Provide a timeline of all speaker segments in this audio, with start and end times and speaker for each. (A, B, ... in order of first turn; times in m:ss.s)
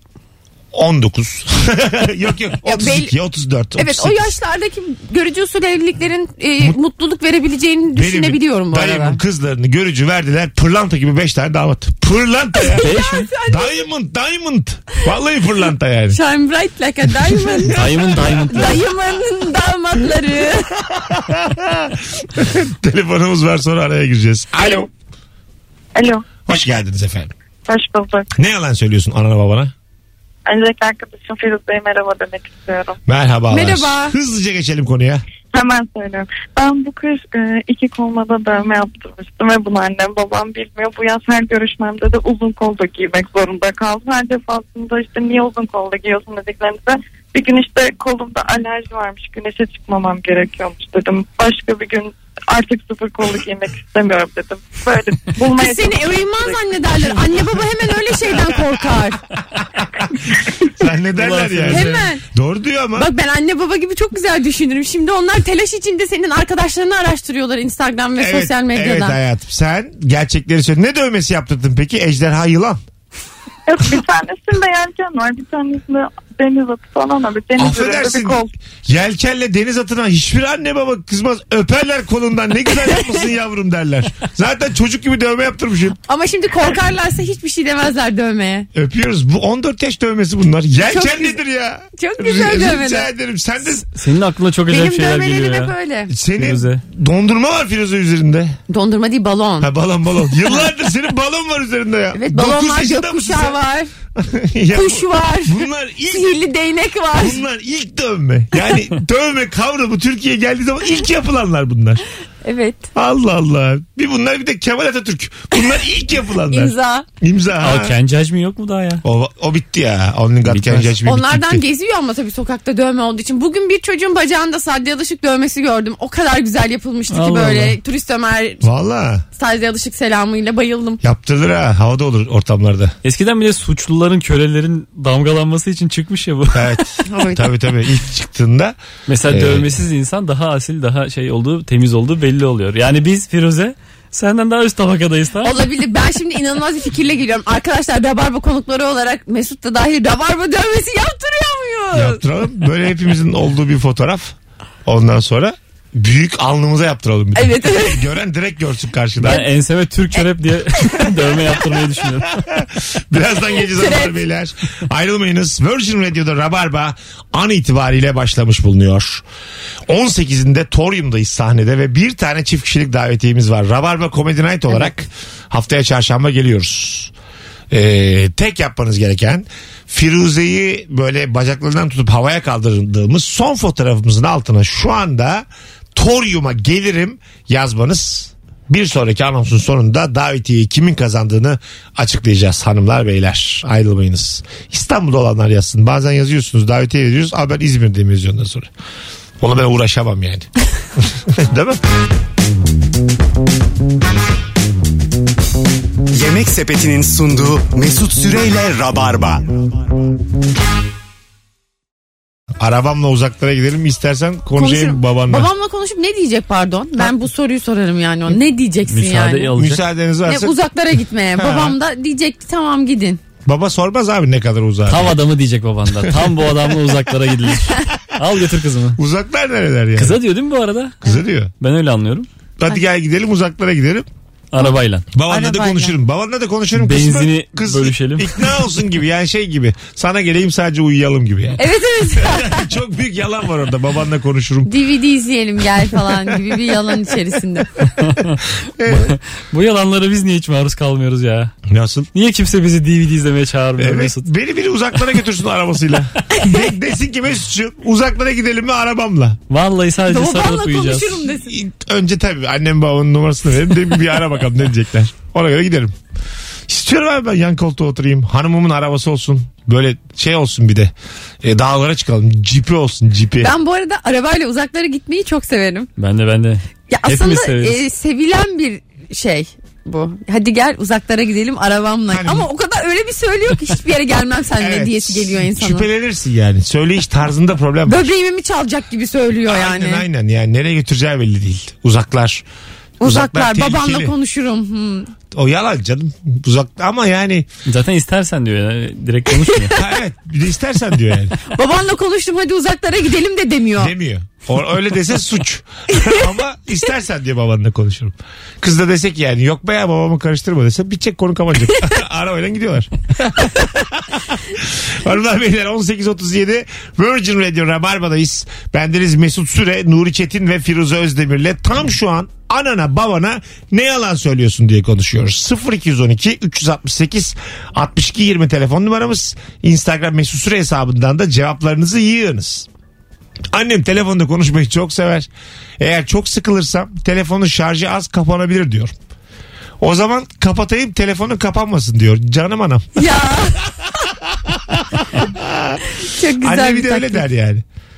0:00.7-0:04.3 A
0:02.6-0:03.1 B
0:03.8-0:09.2 B
0:07.9-0:12.9 A
0:12.6-0:13.8 B
0:12.8-0:13.3 C
0:13.5-0:16.2 A
0:16.1-0:17.8 B
0:17.5-0:17.9 A
0:17.7-0:18.8 C
0:18.5-0:20.8 B
0:20.9-0:24.9 A
0:26.0-0:26.3 D
0:26.5-0:27.3 A
0:27.7-0:28.3 D
0:28.4-0:29.7 A
0:30.5-0:33.0 D
0:33.1-0:35.2 A
0:33.5-0:34.2 B
0:35.5-0:56.7 D
0:55.6-0:59.2 B
1:00.8-1:03.1 A
1:01.2-1:02.0 C
1:01.7-1:02.2 B
1:03.0-1:09.2 B
1:08.2-1:12.8 A
1:13.7-1:18.5 D
1:17.6-1:26.0 A
1:26.1-1:28.7 B
1:28.7-1:33.8 A
1:30.8-1:31.4 B
1:32.0-1:33.1 B
1:33.8-1:35.7 C
1:34.7-1:36.1 B
1:36.1-1:38.6 A
1:36.4-1:36.8 C
1:38.7-1:39.7 B
1:39.6-1:43.6 A
1:42.1-1:43.9 B
1:44.2-1:46.3 A
1:44.7-1:47.4 B
1:47.2-1:52.0 A
1:52.4-1:52.9 B
1:53.0-1:58.0 A
1:56.5-1:57.1 B
1:57.6-1:59.0 C
1:59.0-2:01.6 A
2:00.5-2:00.9 C
2:01.0-2:08.6 B
2:07.1-2:07.8 C
2:08.6-2:09.2 A
2:09.4-2:11.0 B
2:11.0-2:13.0 A
2:13.0-2:16.8 C
2:16.5-2:18.8 A
2:17.1-2:17.5 B
2:19.1-2:25.5 C
2:19.3-2:19.8 A
2:25.4-2:32.2 B
2:31.9-2:39.4 A
2:37.4-2:38.0 B
2:39.2-2:42.5 C
2:42.5-2:49.2 A
2:43.6-2:44.2 B
2:49.9-2:57.1 A
2:57.7-3:18.7 A
3:19.4-3:21.8 A
3:26.1-3:29.8 E
3:32.6-3:35.5 A
3:34.6-3:39.5 B
3:38.9-3:39.8 C
3:39.6-3:40.6 A
3:40.3-3:43.2 B
3:41.4-3:41.8 A
3:43.5-3:45.2 A
3:44.9-3:49.0 C
3:46.0-3:46.9 A
3:49.0-3:50.2 A
3:50.0-3:51.0 C
3:51.0-3:51.5 A
3:51.6-3:52.3 C
3:52.6-3:54.1 A
3:54.5-3:55.1 C
3:55.1-4:04.7 A
3:55.3-3:56.0 B
3:56.8-3:58.6 C
4:01.6-4:02.7 B
4:04.7-4:07.7 B
4:07.8-4:11.6 C
4:08.8-4:09.2 A
4:11.7-4:12.1 A
4:12.1-4:14.3 C
4:13.8-4:19.4 A
4:19.5-4:21.2 C
4:20.1-4:21.6 B
4:21.5-4:25.9 A
4:26.7-4:33.5 A
4:33.4-4:35.9 B
4:36.0-4:37.8 C
4:36.9-4:45.9 B
4:42.1-4:42.5 A
4:44.6-4:48.1 A
4:47.9-4:50.0 B
4:49.5-4:52.4 A
4:53.0-4:55.1 B
4:53.0-4:54.1 A
4:55.3-4:57.5 A
4:57.7-4:59.8 C
4:59.8-5:01.4 A
5:01.5-5:03.9 B
5:03.8-5:32.7 A
5:33.5-5:38.9 A
5:39.8-5:42.9 A
5:43.0-5:43.8 B
5:44.3-5:45.8 A
5:46.0-5:47.2 B
5:46.4-5:47.6 A